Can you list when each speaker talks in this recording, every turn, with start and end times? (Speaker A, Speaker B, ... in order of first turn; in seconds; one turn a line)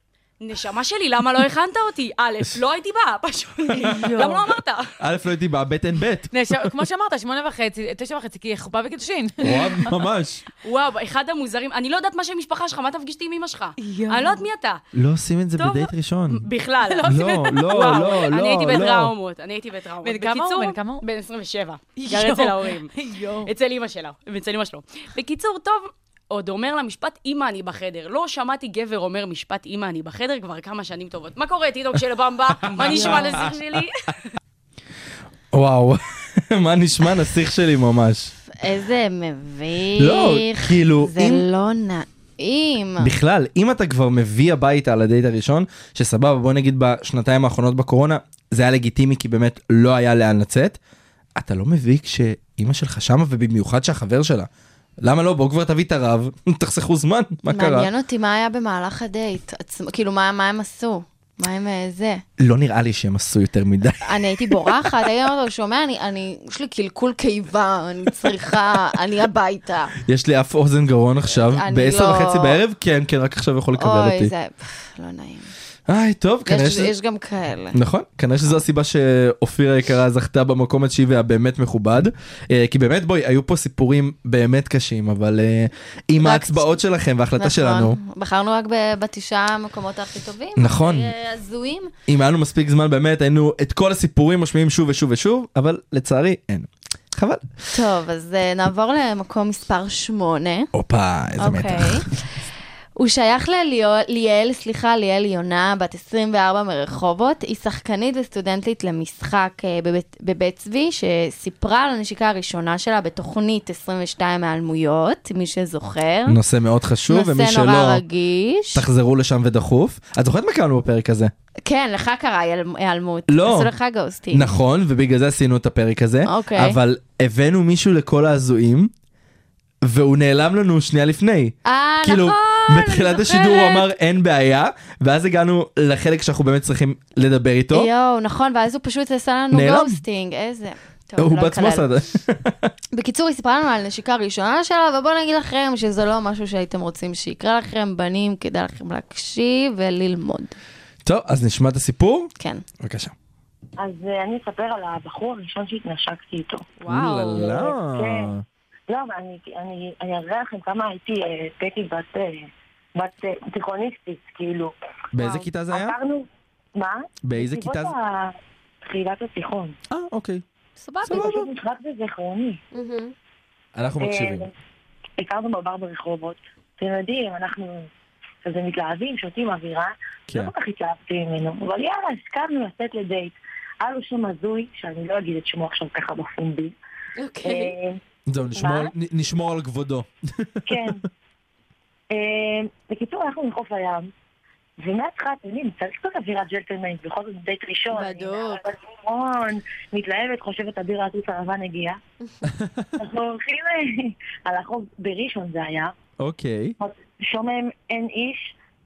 Speaker A: 0.4-4.9
Speaker B: 3.8-4.5
Speaker C: 5.0-6.8
Speaker B: 6.3-9.9
Speaker C: 9.4-10.4
Speaker A: 10.6-14.8
Speaker B: 13.8-14.4
Speaker C: 14.9-16.5
Speaker A: 15.6-34.2
Speaker B: 16.8-18.3
Speaker C: 17.1-19.1
Speaker B: 20.0-21.1
Speaker B: 22.0-23.5
Speaker C: 32.6-33.6
Speaker B: 32.8-33.5
Speaker C: 35.5-38.3
Speaker D: 38.5-43.1
Speaker C: 40.0-41.4
Speaker C: 43.0-50.8
Speaker C: 51.4-54.5
Speaker C: 55.0-57.9
Speaker D: 57.5-62.2
Speaker C: 62.4-65.1
Speaker D: 64.0-70.0
Speaker C: 70.0-74.3
Speaker D: 71.3-72.6
Speaker D: 73.8-75.5
Speaker C: 75.9-76.9
Speaker D: 76.5-77.8
Speaker C: 77.7-88.0
Speaker D: 86.2-86.8
Speaker D: 87.4-91.9
Speaker C: 90.6-91.1
Speaker C: 92.1-97.4
Speaker D: 97.7-100.7
Speaker C: 100.7-102.0
Speaker D: 101.4-102.1
Speaker D: 103.0-116.4
Speaker C: 116.3-118.0
Speaker D: 117.1-118.8
Speaker C: 118.7-121.3
Speaker D: 121.7-124.5
Speaker C: 123.3-123.7
Speaker C: 124.3-128.9
Speaker D: 126.3-126.8
Speaker C: 129.8-137.9
Speaker D: 131.7-133.9
Speaker D: 137.7-141.8
Speaker C: 139.5-140.0
Speaker C: 141.2-142.7
Speaker D: 142.9-150.6
Speaker C: 151.1-153.1
Speaker D: 152.4-152.6
Speaker E: 153.8-156.7
Speaker D: 156.8-157.5
Speaker C: 156.9-158.4
Speaker E: 157.3-158.3
Speaker E: 158.9-164.7
Speaker C: 165.1-166.0
Speaker D: 165.2-165.4
Speaker E: 165.7-169.8
Speaker C: 167.2-167.9
Speaker C: 169.9-170.4
Speaker D: 170.8-171.4
Speaker C: 171.0-171.4
Speaker E: 171.1-172.6
Speaker D: 172.7-173.1
Speaker C: 173.8-174.5
Speaker E: 174.0-174.5
Speaker E: 175.2-177.9
Speaker E: 178.4-186.8
Speaker D: 187.2-187.8
Speaker E: 187.4-188.0
Speaker C: 188.3-190.9
Speaker E: 188.6-188.9
Speaker E: 190.7-191.0
Speaker E: 192.1-194.1
Speaker E: 194.8-202.0
Speaker D: 197.9-198.6
Speaker C: 202.5-202.9
Speaker E: 203.0-205.9
Speaker C: 206.2-206.8
Speaker E: 206.8-208.6